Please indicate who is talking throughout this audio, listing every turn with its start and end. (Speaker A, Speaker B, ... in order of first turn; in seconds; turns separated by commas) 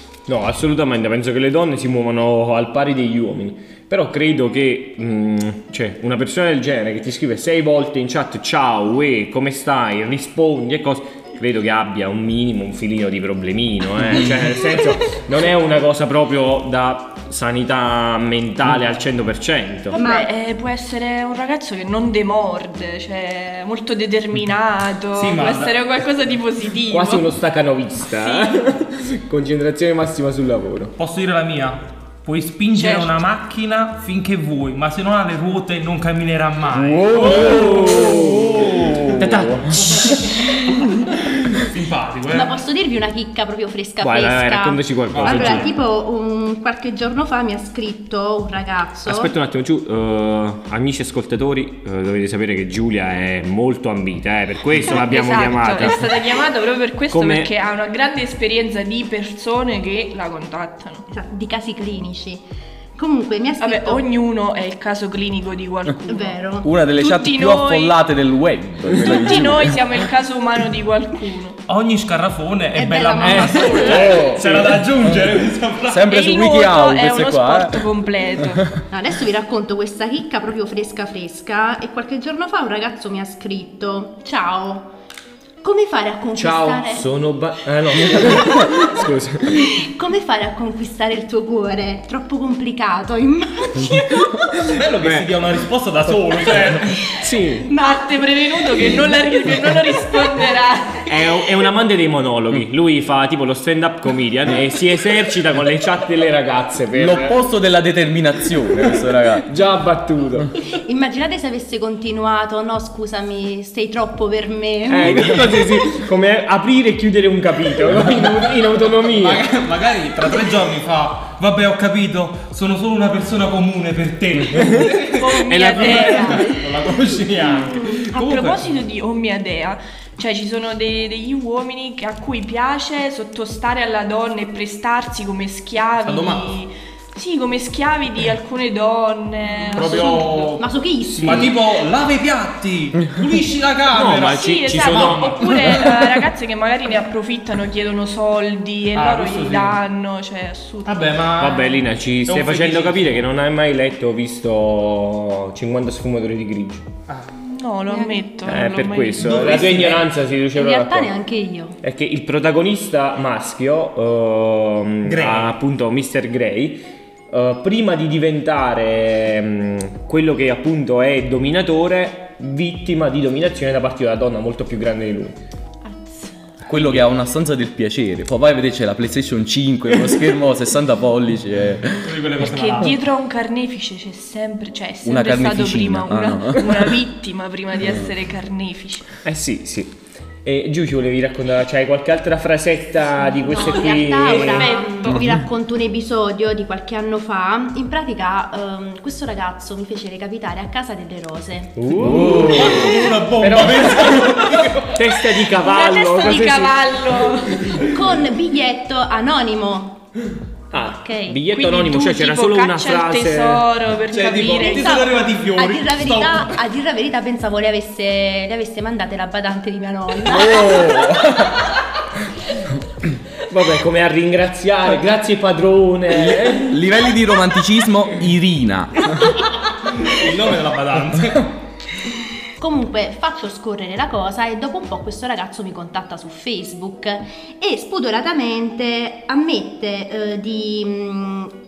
Speaker A: 0.3-20.0, Speaker B: 19.9-27.3, Speaker C: 19.9-20.3, Speaker D: 25.1-25.8, Speaker A: 26.9-30.9, Speaker B: 28.1-28.6, Speaker D: 31.0-39.2, Speaker B: 32.8-33.1, Speaker E: 36.8-39.5, Speaker A: 37.0-40.4, Speaker D: 39.7-42.6, Speaker C: 42.3-49.3, Speaker A: 44.0-45.7, Speaker D: 45.1-45.7, Speaker A: 49.1-56.1, Speaker B: 54.8-61.1, Speaker A: 57.1-57.5, Speaker C: 61.1-62.4, Speaker C: 63.0-64.0, Speaker B: 63.6-68.0, Speaker C: 66.1-66.7, Speaker E: 66.6-69.9, Speaker B: 68.9-71.6, Speaker D: 71.7-76.1, Speaker C: 72.7-74.2, Speaker E: 73.7-77.9, Speaker B: 76.1-78.7, Speaker C: 78.9-84.9, Speaker C: 85.6-87.1, Speaker A: 86.3-89.7, Speaker C: 88.1-88.9, Speaker C: 89.5-94.6, Speaker D: 94.7-97.1, Speaker A: 95.0-95.3, Speaker A: 97.2-97.7, Speaker C: 97.7-99.3, Speaker B: 97.7-101.0, Speaker A: 101.1-107.4, Speaker E: 106.9-109.5, Speaker A: 109.4-110.5, Speaker C: 110.7-115.6, Speaker A: 114.9-119.5, Speaker D: 118.0-118.4, Speaker D: 119.0-128.7, Speaker A: 124.5-124.9, Speaker B: 125.0-126.5, Speaker A: 125.5-126.4, Speaker B: 127.7-140.5, Speaker D: 136.0-136.5, Speaker C: 139.6-141.6, Speaker D: 139.7-140.7, Speaker D: 141.2-145.9, Speaker A: 143.9-145.9, Speaker B: 144.3-151.1, Speaker D: 148.9-149.8, Speaker D: 150.8-153.3, Speaker A: 151.4-156.9, Speaker D: 157.1-157.3, Speaker B: 157.4-159.7, Speaker C: 157.9-158.3, Speaker A: 158.5-161.1, Speaker D: 159.2-160.1, Speaker C: 160.5-161.8, Speaker A: 161.8-175.4, Speaker D: 165.0-165.6, Speaker B: 175.8-176.4, Speaker E: 176.6-182.2, Speaker A: 176.7-177.1, Speaker D: 182.0-183.0, Speaker B: 182.4-189.2, Speaker E: 185.0-186.9, Speaker A: 189.2-194.8, Speaker C: 193.3-201.8, Speaker B: 193.9-195.2, Speaker A: 201.8-206.8, Speaker E: 201.9-203.0, Speaker D: 202.1-205.0, Speaker B: 205.6-207.8, Speaker C: 207.7-210.0, Speaker A: 210.7-213.6, Speaker C: 210.8-211.4, Speaker B: 211.5-215.1, Speaker D: 214.1-216.6, Speaker C: 214.6-221.0, Speaker E: 220.3-221.6, Speaker A: 223.5-226.8, Speaker E: 226.1-229.3, Speaker D: 230.0-231.5, Speaker C: 232.6-241.5